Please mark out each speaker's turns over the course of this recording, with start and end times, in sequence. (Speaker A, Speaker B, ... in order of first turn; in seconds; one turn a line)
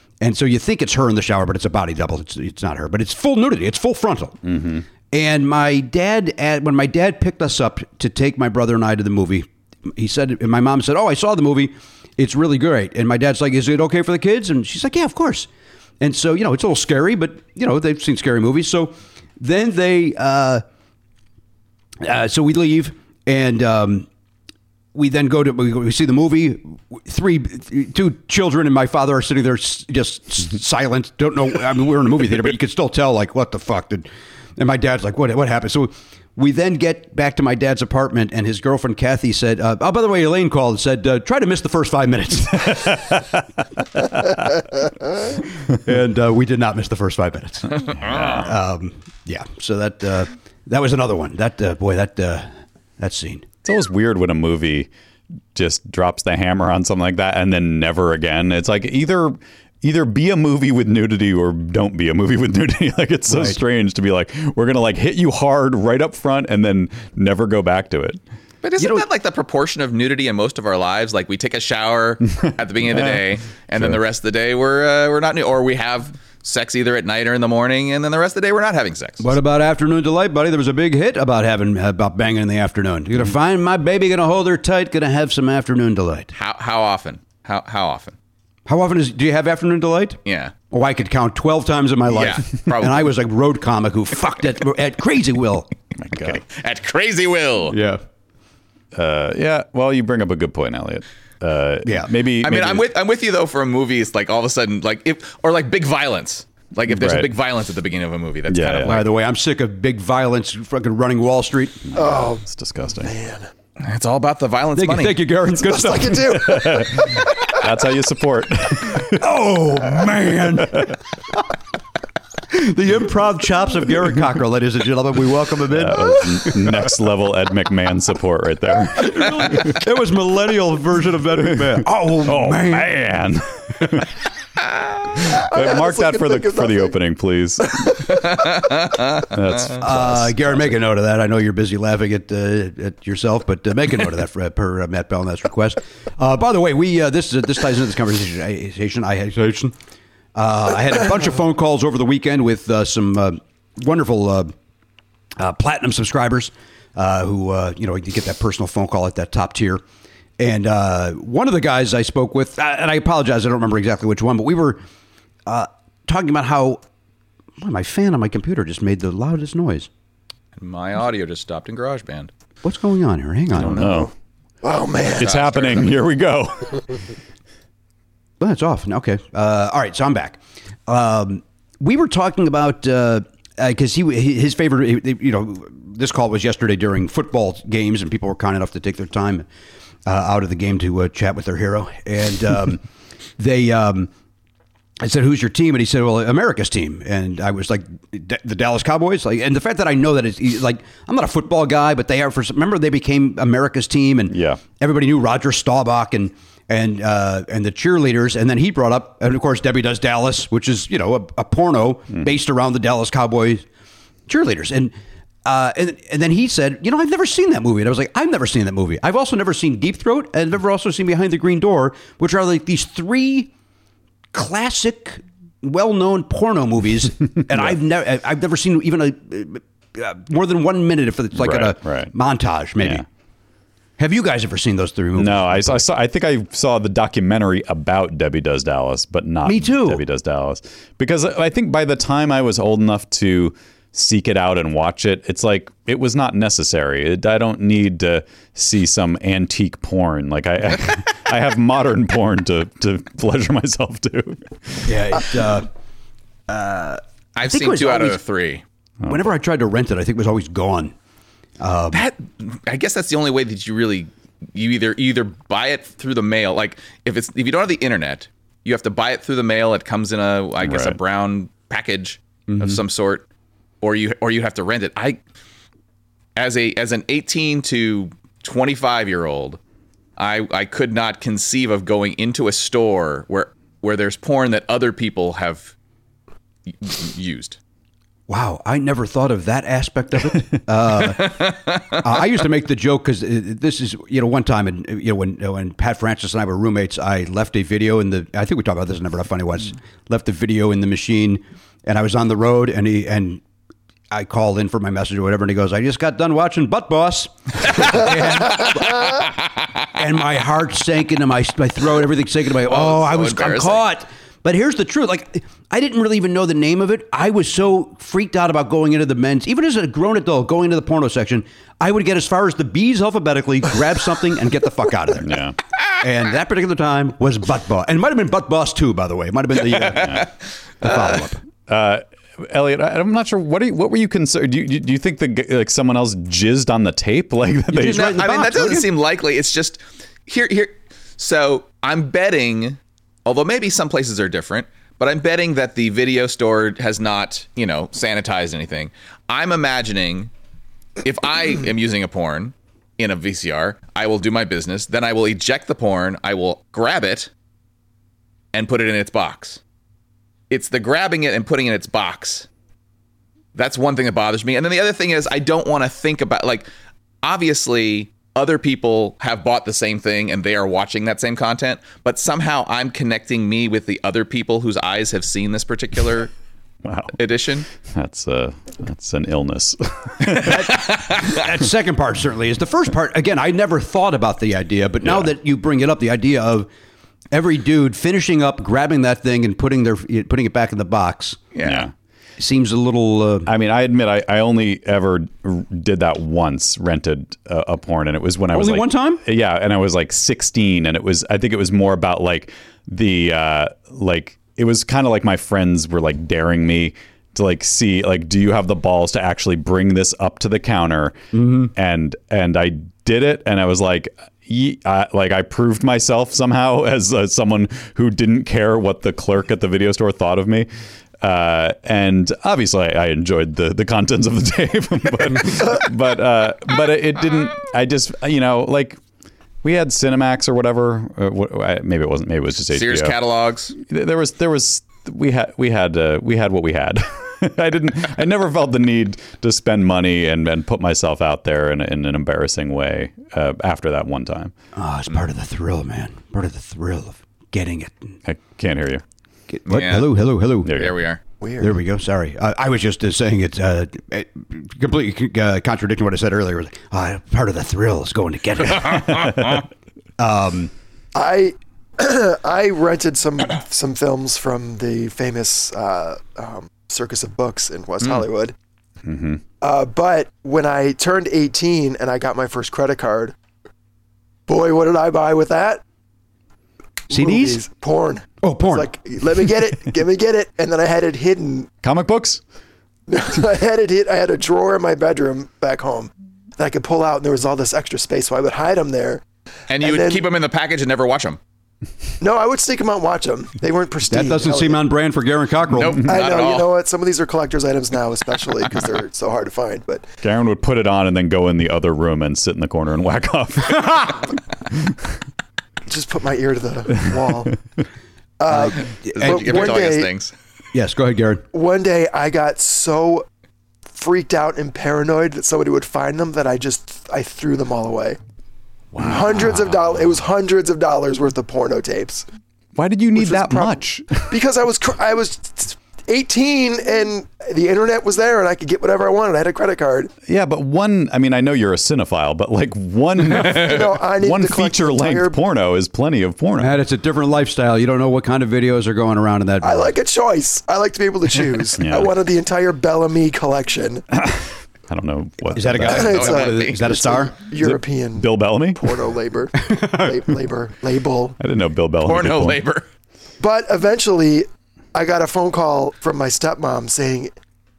Speaker A: 0.2-4.4
Speaker B: 4.4-4.8
Speaker A: 5.1-15.5
Speaker A: 16.0-20.6
Speaker A: 22.0-24.1
Speaker A: 24.9-43.1
Speaker B: 42.7-43.4
Speaker B: 44.1-44.6
Speaker A: 45.8-53.5
Speaker B: 48.0-48.5
Speaker C: 48.0-48.4
Speaker B: 53.6-54.9
Speaker B: 55.5-68.2
Speaker A: 63.3-63.6
Speaker C: 68.6-79.3
Speaker A: 68.8-69.0
Speaker B: 72.5-73.2
Speaker A: 79.2-86.3
Speaker C: 86.3-88.1
Speaker A: 88.7-95.7
Speaker C: 90.2-90.5
Speaker C: 92.1-93.1
Speaker B: 96.0-96.4
Speaker C: 96.2-97.8
Speaker A: 97.7-98.0
Speaker B: 98.9-102.9
Speaker C: 102.4-109.0
Speaker B: 106.9-107.3
Speaker B: 108.5-109.1
Speaker A: 108.8-111.9
Speaker B: 111.9-113.1
Speaker D: 111.9-112.4
Speaker D: 112.9-113.5
Speaker C: 113.8-115.3
Speaker A: 114.8-116.7
Speaker D: 115.6-117.3
Speaker B: 116.4-119.2
Speaker A: 119.2-120.9
Speaker A: 122.5-126.6
Speaker B: 125.7-129.7
Speaker A: 129.0-132.9
Speaker B: 131.6-134.1
Speaker D: 135.2-136.9
Speaker B: 135.5-138.1
Speaker B: 139.3-140.7
Speaker A: 139.8-149.7
Speaker A: 150.3-154.5
Speaker A: 155.4-159.8
Speaker A: 160.4-164.8
Speaker A: 165.4-166.8
Speaker A: 167.6-169.9
Speaker C: 170.6-172.3
Speaker A: 172.6-173.8
Speaker B: 173.5-174.1
Speaker D: 173.8-174.1
Speaker D: 174.6-175.9
Speaker B: 175.2-176.8
Speaker C: 175.2-175.7
Speaker A: 178.4-189.4
Speaker A: 190.1-192.8
Speaker A: 193.4-194.1
Speaker A: 195.0-213.6
Speaker B: 204.3-204.6
Speaker A: 214.3-214.9
Speaker A: 215.4-223.5
Speaker A: 224.3-233.0
Speaker B: 227.5-227.8
Speaker B: 231.3-232.1
Speaker B: 232.8-233.1
Speaker A: 234.0-235.8
Speaker B: 235.1-254.5
Speaker A: 239.4-240.0
Speaker A: 254.8-255.7
Speaker A: 256.5-258.2
Speaker C: 257.4-258.6
Speaker B: 259.0-259.3
Speaker A: 259.1-260.9
Speaker A: 261.6-262.0
Speaker C: 261.9-273.2
Speaker B: 270.6-271.0
Speaker A: 272.5-272.8
Speaker C: 273.8-275.2
Speaker C: 276.4-279.6
Speaker C: 280.2-285.7
Speaker C: 286.7-287.6
Speaker A: 288.3-291.4
Speaker C: 291.1-292.0
Speaker A: 292.0-303.4
Speaker A: 304.1-309.2
Speaker A: 309.9-325.4
Speaker C: 312.6-313.8
Speaker B: 325.2-325.6
Speaker A: 326.0-330.3
Speaker B: 329.9-330.3
Speaker A: 330.8-331.4
Speaker B: 330.9-338.2
Speaker A: 337.7-338.9
Speaker C: 337.9-350.3
Speaker C: 351.0-357.3
Speaker C: 358.5-359.6
Speaker C: 360.5-362.5
Speaker C: 363.5-366.7
Speaker C: 367.2-376.3
Speaker B: 376.8-377.1
Speaker C: 377.1-377.7
Speaker B: 377.9-380.7
Speaker A: 380.4-386.7
Speaker C: 380.8-381.1
Speaker B: 385.0-385.3
Speaker A: 387.3-391.4
Speaker C: 391.5-391.9
Speaker B: 391.6-391.9
Speaker A: 392.4-393.5
Speaker B: 393.4-420.7
Speaker A: 398.5-399.2
Speaker A: 411.3-411.7
Speaker B: 421.2-429.0
Speaker B: 429.6-433.1
Speaker C: 432.7-433.7
Speaker B: 433.7-444.5
Speaker A: 444.8-448.1
Speaker B: 448.3-449.0
Speaker A: 449.5-450.7
Speaker C: 449.7-450.1
Speaker B: 450.6-451.0
Speaker C: 450.7-451.2
Speaker D: 451.4-451.7
Speaker A: 451.6-459.4
Speaker A: 460.2-460.7
Speaker D: 461.1-468.5
Speaker B: 469.0-469.4
Speaker D: 469.6-473.3
Speaker D: 474.5-475.8
Speaker A: 477.1-477.6
Speaker D: 477.1-481.7
Speaker A: 478.4-478.9
Speaker B: 481.8-482.4
Speaker D: 483.1-489.2
Speaker C: 489.7-491.4
Speaker D: 489.8-490.2
Speaker D: 492.2-494.8
Speaker A: 494.1-496.0
Speaker C: 495.7-496.7
Speaker D: 496.1-500.1
Speaker B: 500.2-504.3
Speaker D: 505.9-507.6
Speaker D: 508.4-510.1
Speaker A: 508.5-509.8
Speaker C: 509.0-510.3
Speaker A: 510.7-511.4
Speaker D: 511.5-513.3
Speaker D: 513.9-518.2
Speaker B: 519.0-519.2
Speaker D: 519.0-522.2
Speaker B: 522.7-524.3
Speaker D: 523.1-530.1
Speaker B: 530.3-536.8
Speaker D: 533.4-535.4
Speaker A: 536.6-540.0
Speaker D: 539.6-544.0
Speaker B: 541.8-542.1
Speaker B: 544.2-546.2
Speaker A: 545.5-547.3
Speaker D: 545.8-551.3
Speaker C: 546.0-547.0
Speaker B: 547.6-548.8
Speaker B: 551.4-552.6
Speaker C: 552.0-552.8
Speaker D: 553.4-557.3